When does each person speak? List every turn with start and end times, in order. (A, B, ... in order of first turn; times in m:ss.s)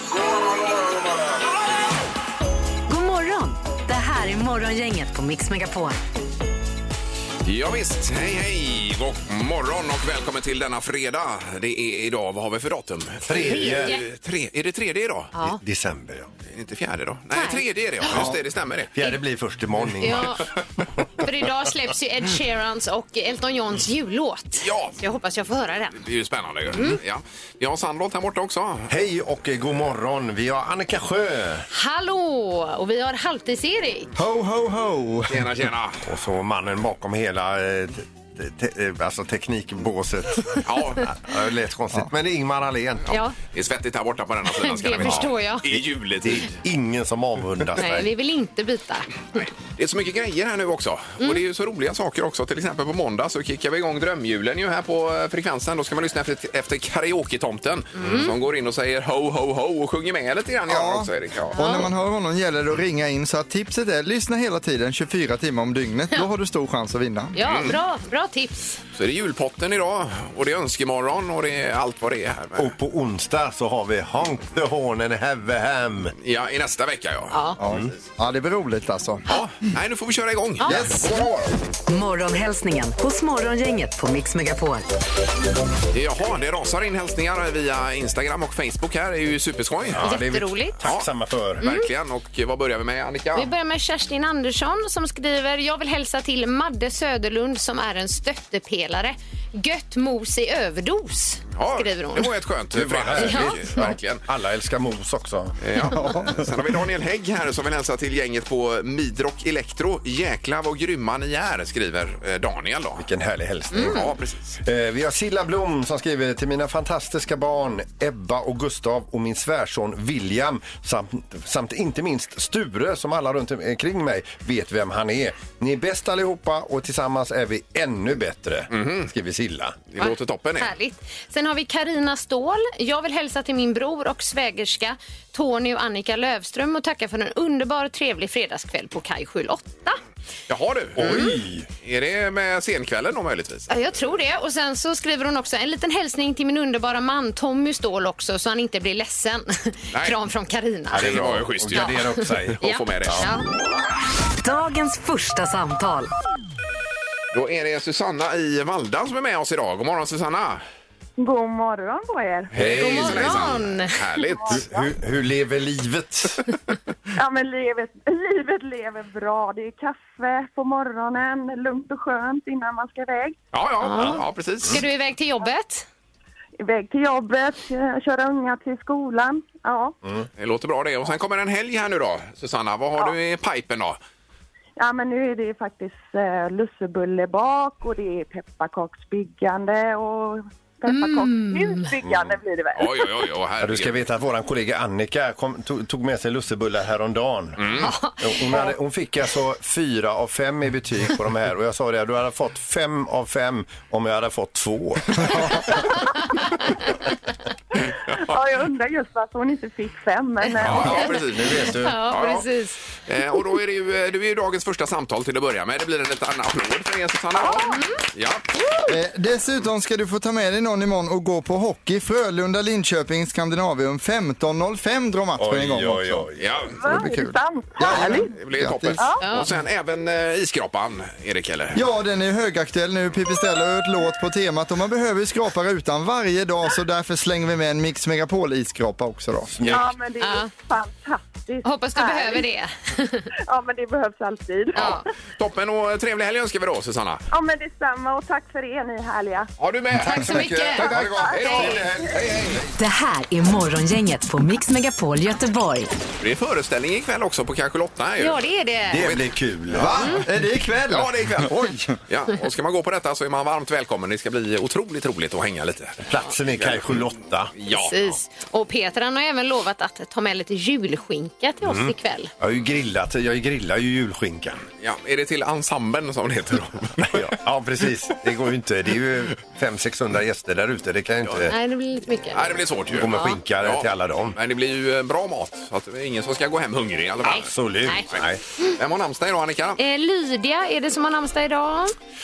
0:02.9-0:06.0 A
0:07.4-0:15.3 B
0:13.3-0:14.0 C
0:13.4-0:14.0 D
0:15.3-0:15.6 D
0:15.4-0:16.3 C
0:16.5-0:18.9 B
0:17.3-0:17.6 D
0:18.1-0:18.4 E
0:18.9-0:20.4 C
0:20.0-0:20.5 D
0:21.1-0:26.0 D
0:24.6-0:25.0 B
0:26.0-0:28.9 B
0:26.7-0:27.0 D
0:28.9-0:31.6 C
0:31.7-0:34.1 D
0:34.2-0:35.5 E
0:35.3-0:36.0 B
0:36.0-0:43.2 C
0:40.6-0:41.1 B
0:43.1-0:43.4 D
0:43.4-0:46.6 B
0:44.5-0:45.8 D
0:45.0-0:45.3 C
0:46.2-0:48.1 C
0:47.8-0:49.4 D
0:49.4-1:01.7 B
0:58.0-0:58.3 D
1:00.7-1:07.4 E
1:01.5-1:01.9 D
1:07.3-1:08.8 D
1:07.4-1:07.8 B
1:08.9-1:12.7 B
1:12.6-1:16.1 C
1:16.2-1:17.4 B
1:17.3-1:17.6 D
1:17.6-1:19.2 E
1:19.3-1:21.5 B
1:20.6-1:21.2 D
1:20.6-1:21.3 E
1:21.9-1:24.9 A
1:25.9-1:30.0 B
1:29.9-1:31.6 C
1:30.0-1:30.8 D
1:30.8-1:31.1 B
1:31.6-1:33.5 B
1:31.6-1:31.9 D
1:33.3-1:42.4 D
1:41.5-1:44.2 B
1:42.7-1:45.5 C
1:43.2-1:43.7 D
1:45.6-1:53.0 B
1:45.8-1:46.6 E
1:53.0-2:09.8 C
1:53.7-1:54.1 D
1:53.8-1:54.6 B
2:08.7-2:09.1 B
2:09.9-2:10.7 B
2:10.0-2:20.0 D
2:20.5-2:21.2 B
2:21.0-2:21.7 C
2:21.0-2:21.4 D
2:21.8-2:23.7 B
2:23.7-2:33.5 D
2:29.9-2:30.2 B
2:30.9-2:33.3 B
2:30.9-2:33.3 C
2:34.4-2:36.1 A
2:37.3-2:40.6 B
2:41.2-2:42.8 F
2:42.5-2:44.6 B
2:42.5-2:43.4 C
2:42.7-2:44.0 D
2:44.2-2:44.9 F
2:44.4-2:46.4 C
2:47.2-2:53.3 F
2:53.5-2:54.8 B
2:53.8-2:55.8 D
2:56.6-2:59.9 F
3:00.4-3:04.0 B
3:04.8-3:13.3 F
3:10.8-3:11.9 D
3:12.0-3:12.4 C
3:12.7-3:14.0 B
3:13.6-3:25.3 C
3:17.6-3:17.9 B
3:17.7-3:18.7 D
3:26.4-3:26.8 D
3:28.0-3:28.5 B
3:28.2-3:31.2 F
3:30.6-3:32.5 B
3:30.7-3:32.0 C
3:31.6-3:32.8 D
3:33.1-3:38.5 B
3:37.4-3:37.7 F
3:37.6-3:38.0 D
3:38.9-3:46.3 E
3:45.4-3:46.6 C
3:46.4-3:46.8 B
3:46.8-3:48.3 F
3:46.9-3:49.0 E
3:47.9-3:51.8 B
3:49.0-3:49.2 F
3:49.2-3:49.5 D
3:51.7-3:59.5 E
3:59.5-3:59.9 C
3:59.6-4:02.4 F
4:00.2-4:00.5 D
4:01.6-4:03.2 D
4:03.5-4:04.9 F
4:04.7-4:05.0 D
4:04.7-4:07.2 B
4:07.3-4:09.5 F
4:09.6-4:12.6 B
4:10.0-4:11.8 D
4:10.3-4:12.7 C
4:10.7-4:12.0 F
4:12.8-4:15.9 A
4:16.2-4:19.2 B
4:18.2-4:19.1 D
4:18.9-4:20.0 C
4:19.7-4:22.0 E
4:20.0-4:20.2 D
4:20.9-4:21.6 B
4:22.1-4:28.2 B
4:26.1-4:27.5 C
4:27.7-4:32.3 D
4:31.6-4:34.6 C
4:34.8-4:37.3 B
4:37.1-4:41.6 C
4:41.2-4:41.5 B
4:41.5-4:43.4 D
4:42.3-4:47.5 B
4:42.9-4:44.4 C
4:47.2-4:48.1 D
4:47.3-4:48.4 C
4:48.1-4:49.8 B
4:49.8-4:51.9 D